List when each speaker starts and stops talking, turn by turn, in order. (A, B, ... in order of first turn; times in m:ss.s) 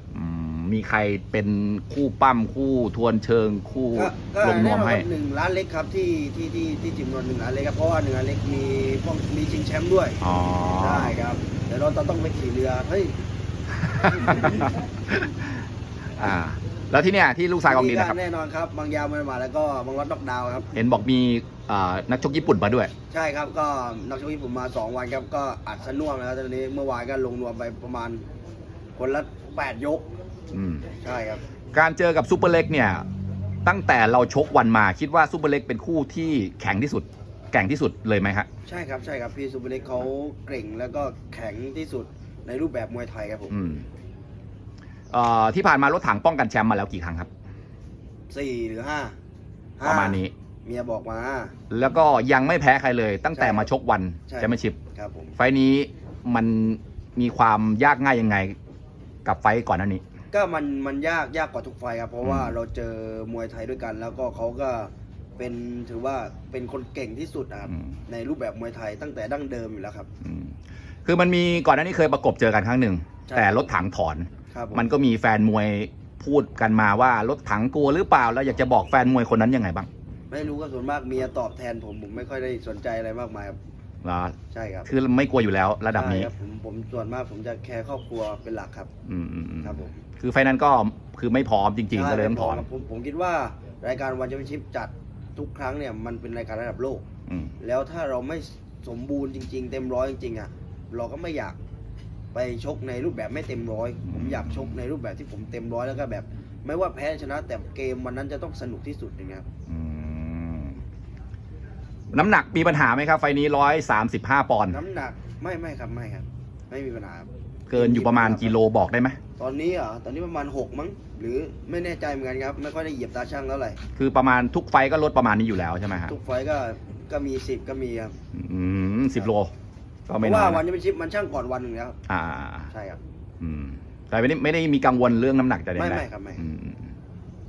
0:00.1-0:05.1 A
0:03.9-0:10.2 B
0:10.2-0:11.2 A
0:10.8-0:13.2 B
0:13.7-0:15.6 A
0:16.2-0:18.2 A
0:17.7-0:20.7 B
0:20.7-0:22.9 A
0:23.1-0:28.2 B
0:29.0-0:30.1 B
0:30.5-0:30.9 A
0:31.0-0:31.4 B
0:31.7-0:33.1 A
0:33.6-0:38.5 A
0:38.6-0:43.6 B
0:43.5-0:43.8 A
0:45.1-0:47.3 A
0:48.3-0:49.2 B
0:49.8-0:51.6 B
0:49.8-0:50.3 A
0:51.7-0:54.8 A
0:53.3-0:53.7 B
0:54.3-0:55.3 B
0:55.4-0:58.6 A
0:59.2-1:00.0 A
1:00.3-1:10.1 B
1:02.2-1:02.6 A
1:10.2-1:10.5 A
1:11.0-1:19.9 A
1:13.3-1:13.7 B
1:14.5-1:14.9 B
1:20.3-1:23.6 B
1:24.0-1:24.3 A
1:24.5-1:24.9 B
1:24.9-1:26.3 A
1:25.9-1:28.9 B
1:29.0-1:32.7 A
1:29.6-1:30.0 B
1:31.9-1:37.0 B
1:37.3-1:37.5 A
1:37.6-1:41.6 B
1:42.3-1:49.4 B
1:44.1-1:44.8 A
1:49.7-1:50.8 A
1:52.1-1:54.8 A
1:54.7-1:58.5 B
1:57.7-1:59.2 A
1:59.4-2:03.8 B
2:04.0-2:06.1 A
2:06.1-2:08.1 B
2:08.3-2:09.5 A
2:10.1-2:10.6 A
2:10.2-2:12.0 B
2:12.1-2:12.7 A
2:12.7-2:13.0 B
2:13.4-2:16.9 A
2:15.8-2:16.4 B